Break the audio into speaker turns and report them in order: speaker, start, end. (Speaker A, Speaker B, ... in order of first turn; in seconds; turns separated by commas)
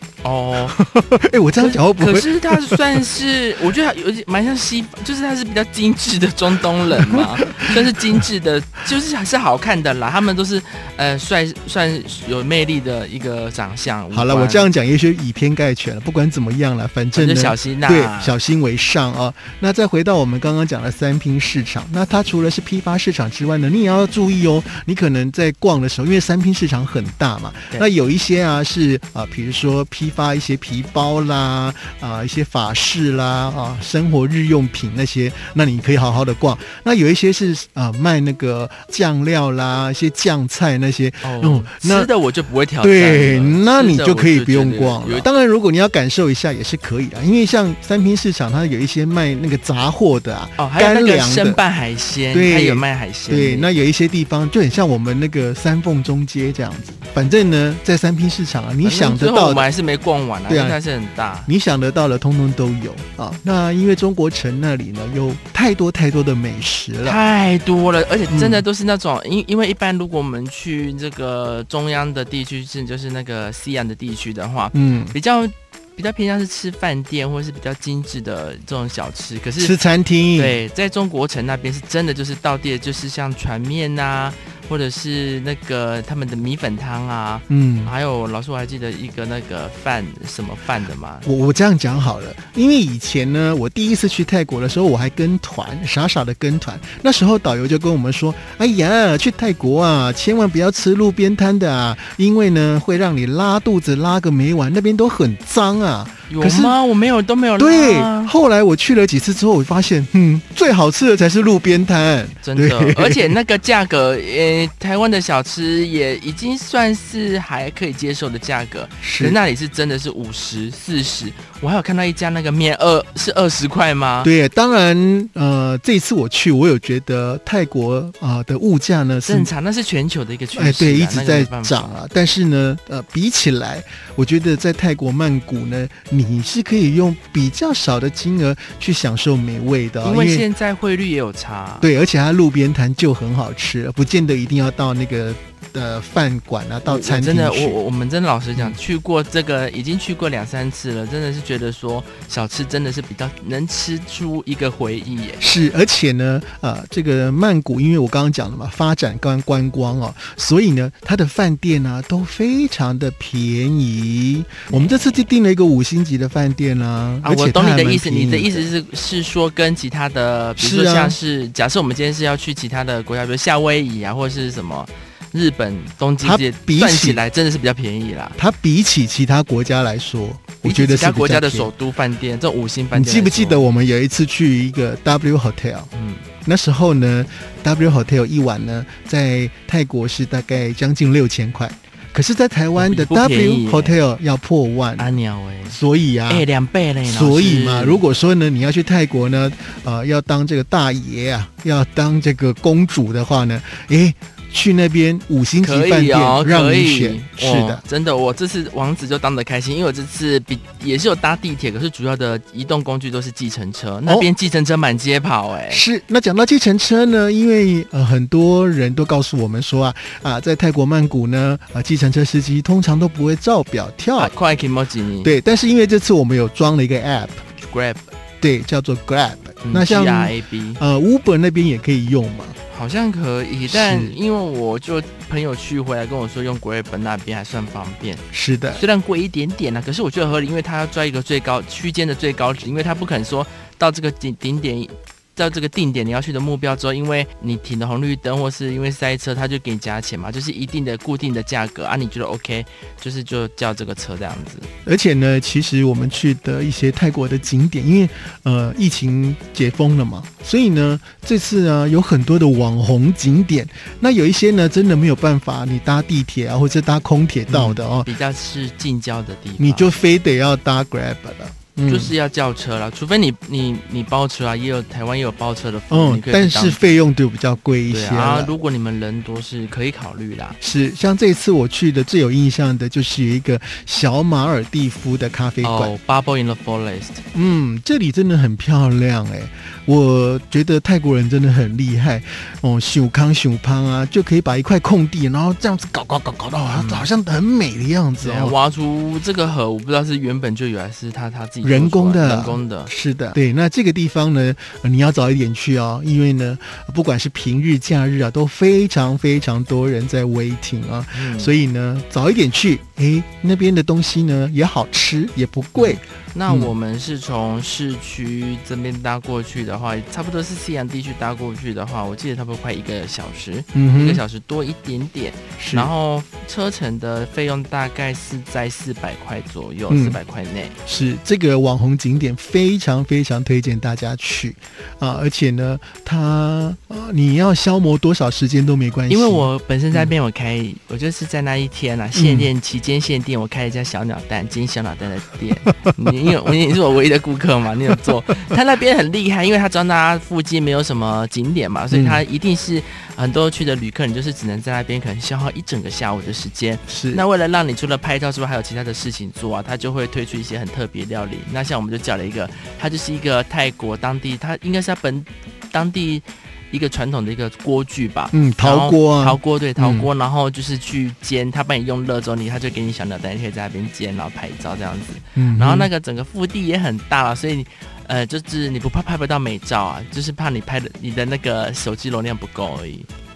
Speaker A: 0.2-0.8, Speaker B: 0.7-3.0, Speaker A: 1.6-14.7, Speaker B: 7.0-7.8, Speaker B: 14.1-42.1, Speaker A: 17.1-18.3, Speaker A: 41.2-45.3, Speaker B: 42.8-51.6, Speaker A: 50.6-53.7, Speaker B: 52.3-59.7, Speaker A: 58.8-61.5, Speaker B: 60.5-60.8, Speaker B: 61.5-67.2, Speaker A: 67.0-79.8, Speaker B: 68.3-68.6, Speaker B: 74.7-75.2, Speaker B: 79.6-80.6, Speaker A: 80.4-91.2, Speaker B: 87.5-87.9, Speaker B: 91.2-106.8, Speaker A: 106.3-108.3, Speaker B: 107.6-113.3, Speaker A: 112.4-124.3, Speaker B: 119.0-119.4, Speaker B: 124.2-129.5, Speaker A: 129.2-132.0, Speaker B: 130.5-140.5, Speaker A: 140.0-141.9, Speaker B: 141.8-147.8, Speaker A: 146.8-155.4, Speaker B: 155.4-168.7, Speaker A: 164.7-165.2, Speaker A: 167.2-178.4, Speaker B: 170.6-171.2, Speaker B: 176.2-177.2, Speaker B: 178.4-181.7, Speaker A: 180.6-183.7, Speaker B: 182.9-185.9, Speaker A: 185.9-186.2, Speaker B: 186.4-195.2, Speaker A: 192.8-194.0, Speaker A: 195.0-198.0, Speaker B: 195.7-196.4, Speaker B: 197.0-207.8, Speaker A: 205.6-215.8, Speaker B: 215.7-224.3, Speaker A: 224.2-225.3, Speaker B: 225.2-227.4, Speaker A: 227.6-228.0, Speaker B: 228.4-232.6, Speaker A: 229.6-230.8, Speaker A: 232.7-254.7, Speaker B: 233.7-234.2, Speaker B: 238.3-238.8, Speaker B: 254.9-268.1, Speaker A: 267.5-269.9, Speaker B: 269.6-272.1, Speaker A: 271.9-276.9, Speaker B: 275.9-278.5, Speaker A: 277.9-280.6, Speaker B: 280.6-285.9, Speaker A: 285.6-287.2, Speaker B: 287.3-298.6, Speaker A: 296.7-297.1, Speaker A: 298.2-302.9, Speaker B: 301.6-316.7, Speaker A: 311.1-311.5, Speaker A: 315.8-330.8, Speaker B: 323.7-324.2, Speaker B: 325.6-325.9, Speaker B: 329.9-330.2, Speaker B: 330.9-340.1, Speaker A: 339.1-383.1, Speaker B: 342.1-342.5, Speaker B: 351.9-352.2, Speaker B: 356.9-357.2, Speaker B: 368.3-370.1, Speaker B: 375.4-375.9